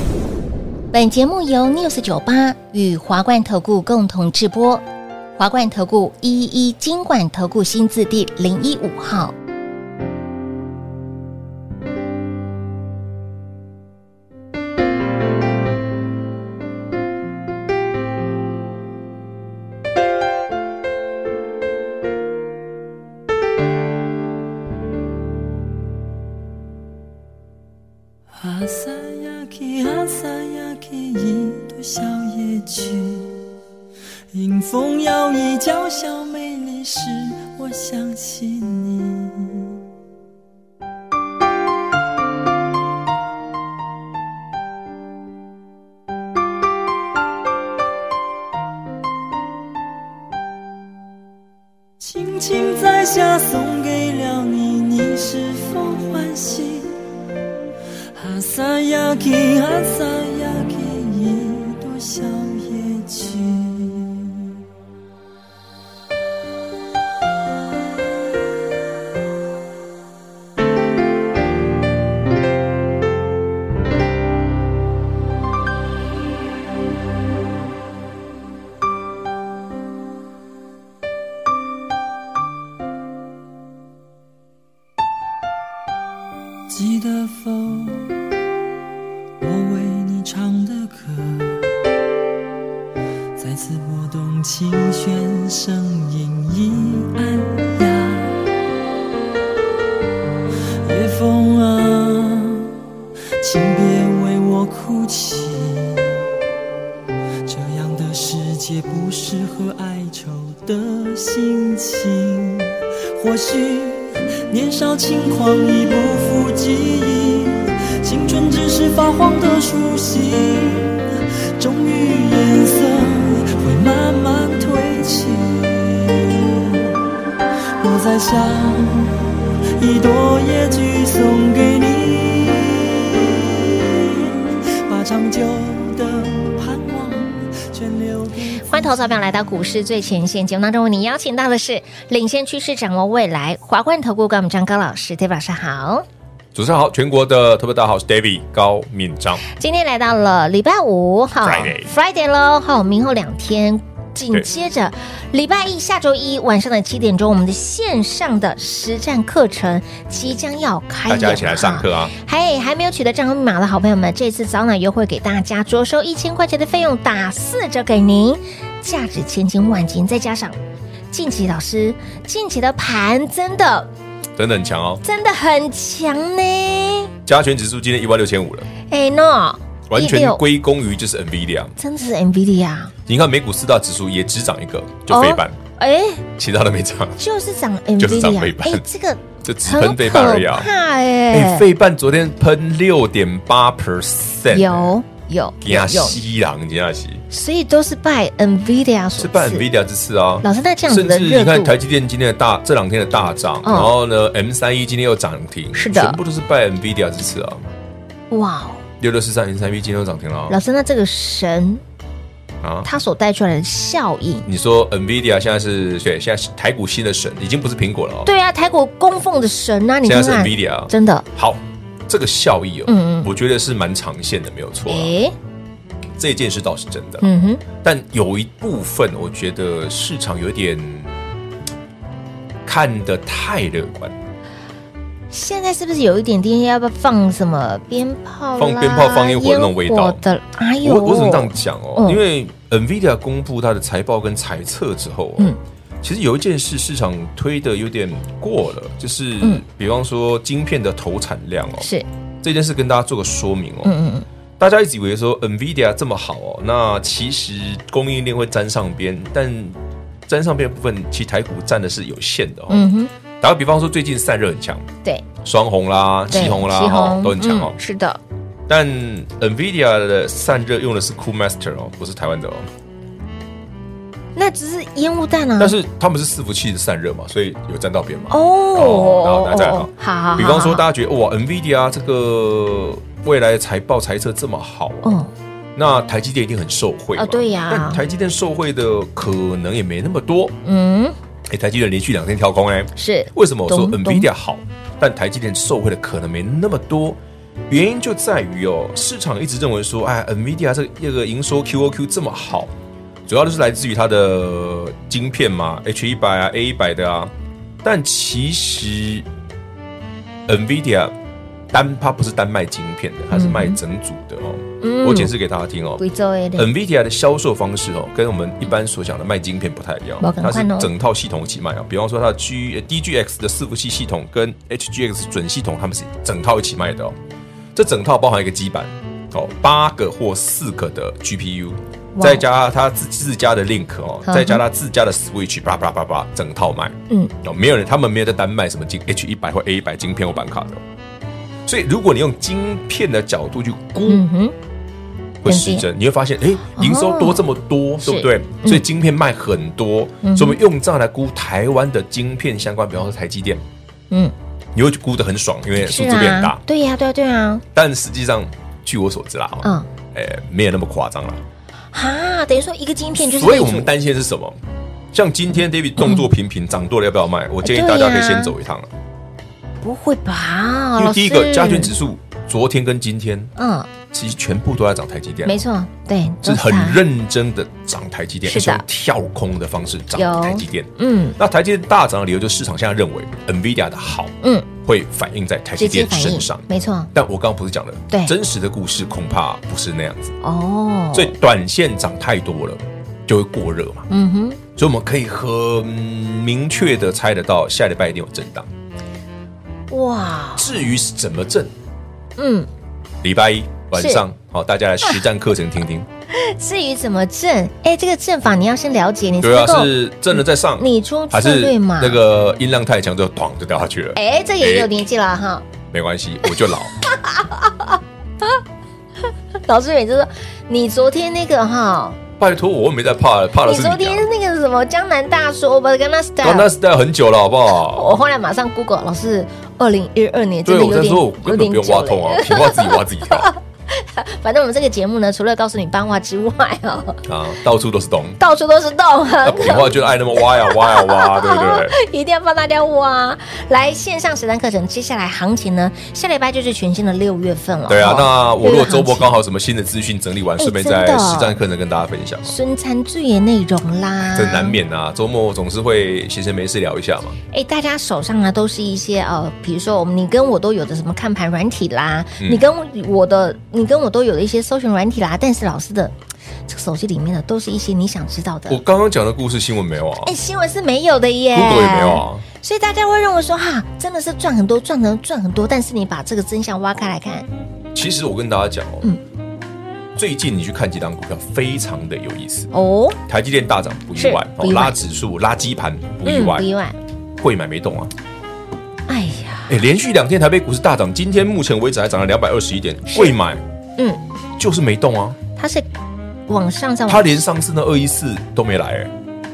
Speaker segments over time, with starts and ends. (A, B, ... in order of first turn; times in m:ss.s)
0:00.9-0:04.8 A
0:05.4-0:09.3 A
0:28.3-0:33.4 B
0:34.3-0:39.8 B
0:52.0-0:57.0 B
0:58.1-1:04.5 B
1:26.7-1:28.2 B
1:29.4-1:31.7 B
1:33.4-1:38.4 B
1:40.8-1:42.7 B
1:43.4-1:46.2 B
1:47.4-2:01.1 B
2:01.6-2:07.0 B
2:07.8-2:09.3 B
2:09.8-2:19.2 B
2:18.6-2:26.0 A
2:26.5-2:29.4 C
2:29.4-2:50.6 A
2:31.4-2:31.9 C
2:41.1-2:42.1 C
2:51.1-2:53.9 A
2:54.4-2:55.0 C
2:55.0-2:57.1 A
2:57.2-2:58.7 C
2:58.9-3:00.4 A
2:59.9-3:01.8 C
3:01.8-3:02.9 A
3:03.0-3:05.6 C
3:05.1-3:06.2 A
3:06.4-3:07.2 C
3:07.2-3:11.6 A
3:08.0-3:08.8 C
3:09.4-3:10.7 C
3:11.3-3:14.9 C
3:14.5-3:16.2 A
3:15.6-3:17.2 C
3:17.3-3:19.6 A
3:19.2-3:27.6 C
3:20.4-3:21.7 A
3:23.6-3:23.9 A
3:25.7-3:26.2 A
3:28.3-3:28.8 A
3:29.0-3:30.6 C
3:30.5-3:31.8 A
3:32.6-3:32.9 C
3:32.8-3:34.4 A
3:34.4-3:38.3 C
3:38.2-3:41.2 A
3:40.0-3:45.1 C
3:42.9-3:43.3 A
3:44.9-3:45.3 A
3:46.2-3:47.2 C
3:47.2-3:47.6 A
3:47.8-3:51.1 C
3:52.6-3:54.2 C
3:55.3-4:02.2 A
3:58.6-4:00.2 C
4:00.8-4:11.9 C
4:11.8-4:12.0 A
4:12.4-4:13.9 C
4:13.8-4:14.2 A
4:14.6-4:22.9 C
4:22.7-4:23.1 A
4:23.4-4:24.8 C
4:25.4-4:27.8 C
4:26.3-4:28.2 A
4:28.7-4:32.7 C
4:34.3-4:35.8 A
4:35.6-4:45.2 C
4:38.3-4:40.8 A
4:45.0-4:45.3 A
4:45.7-4:50.6 C
4:47.2-4:48.0 A
4:50.6-4:51.1 A
4:51.5-5:02.7 C
4:53.0-4:54.3 A
5:03.2-5:07.3 C
5:07.8-5:09.2 C
5:10.5-5:11.1 C
5:11.7-5:16.0 C
5:13.3-5:13.8 A
5:14.8-5:15.3 A
5:16.0-5:16.7 A
5:16.6-5:27.2 C
5:20.2-5:20.9 A
5:27.7-5:40.8 C
5:32.2-5:32.4 A
5:34.2-5:34.6 A
5:41.7-5:44.2 C
5:44.1-5:44.5 A
5:45.4-5:53.6 C
5:45.4-5:45.9 A
5:46.7-5:47.4 A
5:48.0-5:48.8 A
5:50.2-5:50.6 A
5:54.7-5:56.6 C
5:55.8-5:57.6 A
5:57.7-6:01.4 C
5:59.6-5:59.9 A
6:01.9-6:03.9 A
6:03.2-6:04.6 C
6:05.1-6:08.9 C
6:06.0-6:06.2 A
6:07.6-6:08.5 A
6:09.8-6:11.9 A
6:11.0-6:13.5 C
6:13.6-6:13.9 A
6:14.1-6:15.6 C
6:15.4-6:17.0 A
6:16.4-6:30.3 C
6:18.4-6:18.8 A
6:20.1-6:21.4 A
6:24.4-6:24.7 A
6:25.8-6:27.1 A
6:30.4-6:31.3 A
6:31.1-6:34.1 C
6:34.1-6:34.6 A
6:34.7-6:38.7 C
6:39.9-6:40.7 A
6:40.6-6:41.7 C
6:42.4-6:42.7 A
6:43.2-6:46.1 C
6:44.0-6:44.2 A
6:46.3-6:52.2 A
6:49.4-6:55.0 C
6:54.2-6:55.6 A
6:55.9-6:56.9 C
6:57.0-6:58.6 A
6:59.3-7:02.2 A
7:02.4-7:04.3 C
7:03.6-7:06.7 A
7:06.4-7:08.1 C
7:07.8-7:17.2 A
7:10.6-7:13.5 C
7:17.2-7:18.4 C
7:18.4-7:29.4 A
7:19.4-7:21.9 C
7:27.9-7:32.5 C
7:30.6-7:31.6 A
7:32.4-7:34.8 A
7:34.3-7:37.4 C
7:37.5-7:46.1 A
7:42.4-7:42.6 C
7:46.7-7:48.8 A
7:48.7-7:50.3 C
7:50.2-7:57.5 A
7:51.5-7:52.4 C
7:57.9-7:59.1 C
8:00.2-8:02.7 C
8:02.7-8:03.2 A
8:03.3-8:06.7 C
8:04.2-8:05.0 A
8:06.2-8:07.0 A
8:07.4-8:08.1 C
8:09.1-8:09.7 A
8:09.7-8:13.6 C
8:13.1-8:13.3 A
8:14.6-8:15.4 C
8:15.6-8:15.9 A
8:16.5-8:17.4 A
8:17.1-8:19.1 C